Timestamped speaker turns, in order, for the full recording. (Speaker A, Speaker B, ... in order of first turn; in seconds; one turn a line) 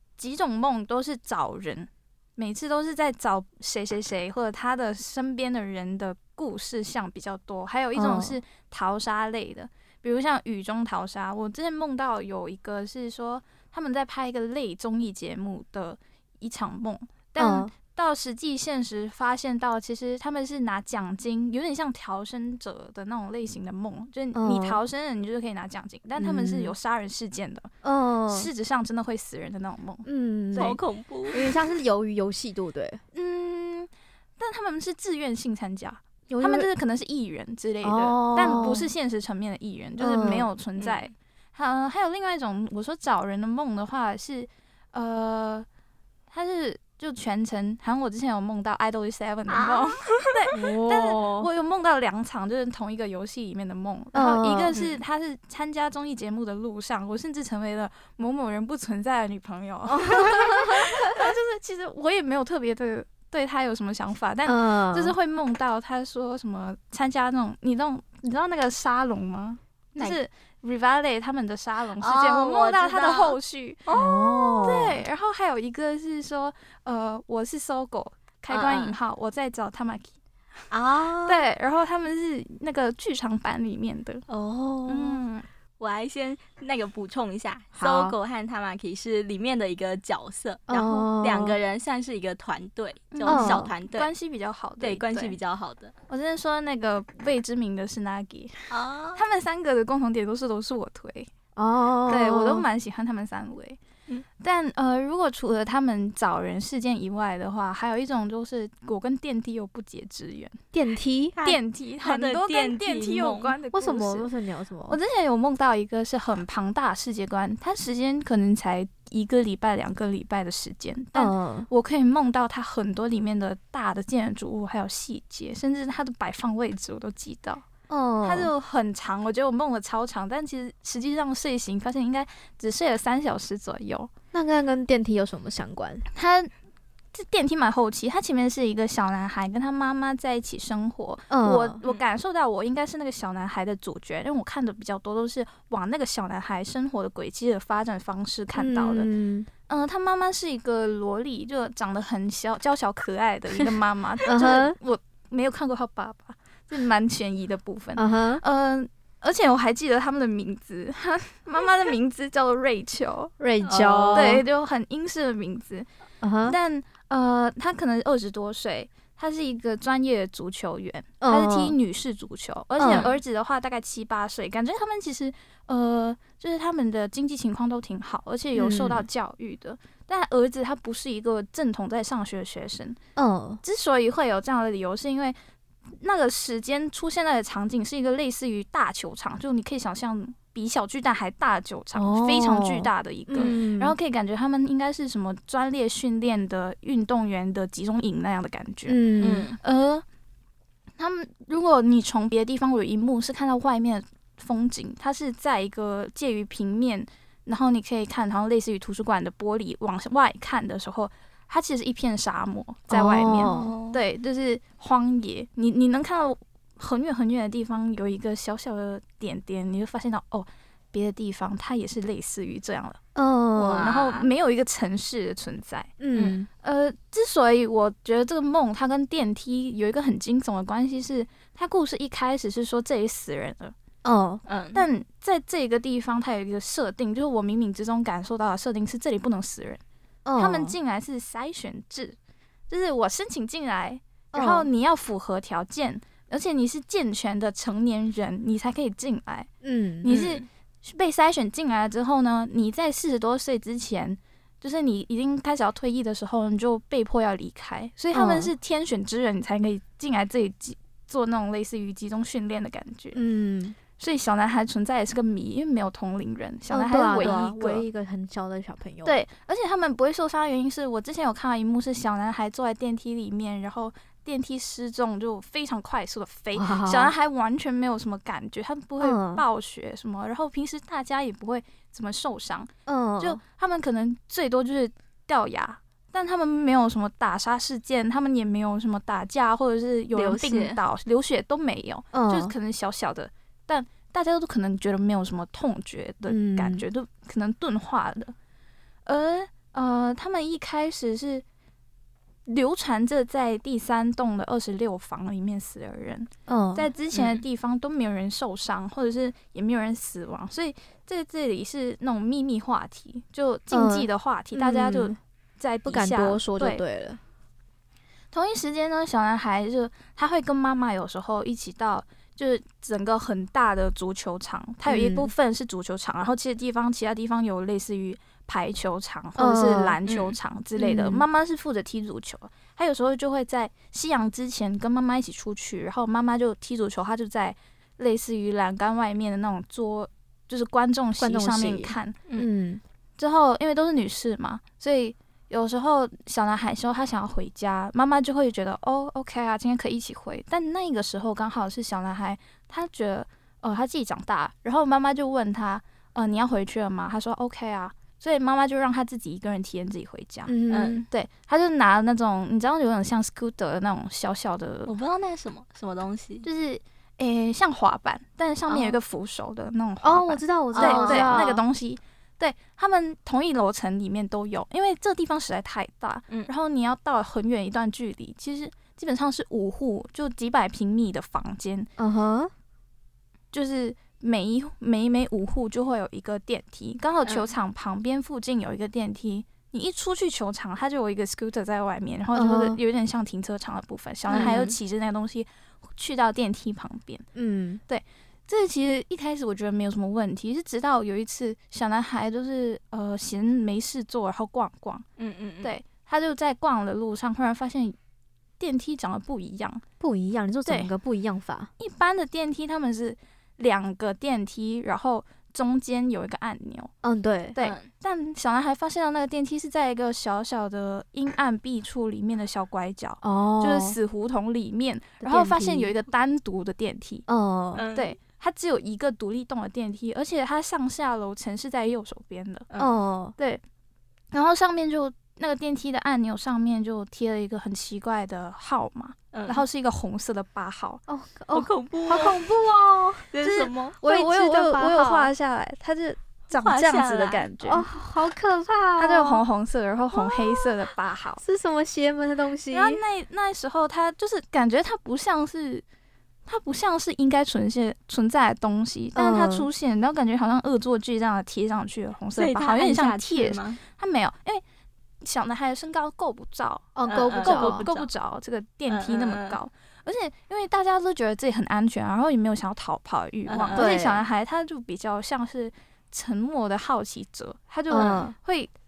Speaker A: 0.2-27.7
Speaker B: 7.9-8.4
Speaker B: 17.4-17.7
Speaker B: 24.3-24.8
Speaker B: 26.2-26.7
Speaker B: 27.8-28.5
Speaker A: 28.3-30.8
Speaker B: 30.0-30.8
Speaker C: 30.6-31.4
Speaker B: 31.3-33.0
Speaker A: 33.1-45.7
Speaker B: 36.3-36.7
Speaker B: 37.8-38.9
Speaker B: 40.0-40.5
Speaker C: 40.8-41.0
Speaker A: 46.3-73.9
Speaker C: 49.5-50.3
Speaker B: 50.5-51.5
Speaker B: 54.1-54.7
Speaker B: 59.9-61.0
Speaker B: 64.5-65.1
Speaker C: 72.0-74.7
Speaker B: 73.9-75.0
Speaker A: 74.6-80.1
Speaker C: 78.5-78.9
Speaker C: 80.7-81.4
Speaker A: 81.2-84.2
Speaker C: 84.3-85.2
Speaker A: 84.9-85.4
Speaker C: 85.8-94.1
Speaker B: 87.8-88.2
Speaker B: 90.7-91.6
Speaker A: 93.1-95.4
Speaker B: 93.3-93.7
Speaker C: 94.8-95.9
Speaker A: 96.1-101.3
Speaker C: 98.7-99.2
Speaker B: 101.5-102.7
Speaker A: 102.0-103.8
Speaker A: 104.4-110.6
Speaker B: 110.7-111.4
Speaker C: 111.3-113.6
Speaker A: 111.4-114.3
Speaker B: 113.7-115.0
Speaker A: 114.9-127.6
Speaker B: 121.1-121.7
Speaker B: 127.9-128.5
Speaker A: 128.2-134.1
Speaker B: 134.3-136.1
Speaker A: 136.1-136.5
Speaker A: 137.1-149.1
Speaker B: 141.3-141.8
Speaker B: 148.5-149.5
Speaker A: 149.7-163.3
Speaker B: 154.2-154.8
Speaker B: 157.9-158.4
Speaker B: 163.4-164.4
Speaker C: 163.6-164.4
Speaker A: 164.1-165.9
Speaker B: 166.2-166.6
Speaker A: 166.4-183.0
Speaker B: 171.2-171.7
Speaker B: 172.8-173.1
Speaker C: 172.8-173.1
Speaker B: 178.5-179.0
Speaker B: 183.2-183.6
Speaker A: 183.6-185.3
Speaker A: 186.0-199.0
Speaker B: 191.9-193.9
Speaker B: 198.9-199.5
Speaker C: 199.2-199.6
Speaker A: 199.6-200.0
Speaker A: 201.0-223.0
Speaker B: 212.9-213.8
Speaker C: 213.4-214.0
Speaker B: 223.1-223.9
Speaker C: 223.6-224.3
Speaker A: 223.6-225.9
Speaker B: 226.0-226.5
Speaker A: 226.6-233.7
Speaker B: 234.0-234.4
Speaker C: 234.5-234.8
Speaker A: 234.7-239.8
Speaker B: 240.2-240.7
Speaker A: 240.4-242.2
Speaker A: 242.7-249.5
Speaker B: 244.3-244.7
Speaker B: 249.6-250.1
Speaker A: 250.0-263.2
Speaker C: 250.1-250.4
Speaker B: 258.1-258.5
Speaker B: 263.1-263.8
Speaker A: 264.0-267.8
Speaker B: 266.7-269.1
Speaker A: 269.0-298.3
Speaker B: 276.5-277.1
Speaker B: 279.0-279.4
Speaker B: 282.9-283.4
Speaker C: 290.1-290.8
Speaker B: 292.1-292.5
Speaker B: 296.3-296.8
Speaker A: 299.1-301.4
Speaker A: 302.5-316.8
Speaker B: 306.5-306.9
Speaker C: 307.1-307.4
Speaker B: 313.7-315.2
Speaker B: 315.9-317.2
Speaker A: 318.3-342.2
Speaker B: 324.9-325.3
Speaker B: 329.4-330.0
Speaker C: 330.1-330.4
Speaker B: 330.8-331.2
Speaker B: 341.2-342.8
Speaker A: 343.2-360.5
Speaker B: 360.5-361.1
Speaker C: 360.7-361.1
Speaker A: 361.1-364.9
Speaker C: 364.9-366.4
Speaker A: 366.4-381.9
Speaker C: 368.7-369.0
Speaker B: 370.0-371.6
Speaker C: 370.7-371.6
Speaker B: 382.0-382.5
Speaker A: 383.5-397.2
Speaker B: 392.3-392.8
Speaker B: 394.3-394.6
Speaker C: 394.3-394.8
Speaker B: 397.3-397.8
Speaker A: 397.9-405.0
Speaker C: 405.2-405.7
Speaker A: 405.6-407.9
Speaker A: 408.6-409.8
Speaker B: 410.0-411.7
Speaker A: 411.8-416.9
Speaker B: 417.0-417.6
Speaker A: 417.6-427.2
Speaker C: 417.6-417.9
Speaker B: 423.2-424.0
Speaker B: 425.2-425.9
Speaker B: 427.3-427.9
Speaker C: 427.7-428.1
Speaker A: 427.9-432.7
Speaker B: 432.8-433.4
Speaker A: 434.3-441.0
Speaker C: 439.3-439.6
Speaker B: 441.1-443.3
Speaker C: 441.5-442.4
Speaker C: 443.3-444.0
Speaker A: 443.4-447.9
Speaker B: 444.0-445.3
Speaker C: 446.5-447.4
Speaker B: 447.6-449.4
Speaker A: 449.0-451.4
Speaker B: 450.1-450.6
Speaker B: 451.4-453.0
Speaker A: 452.7-455.8
Speaker A: 456.5-464.6
Speaker B: 459.1-459.7
Speaker C: 462.4-463.8
Speaker A: 465.2-478.7
Speaker B: 466.9-467.9
Speaker C: 467.1-468.1
Speaker C: 468.9-469.6
Speaker C: 473.5-473.9
Speaker B: 473.7-474.2
Speaker B: 477.9-478.3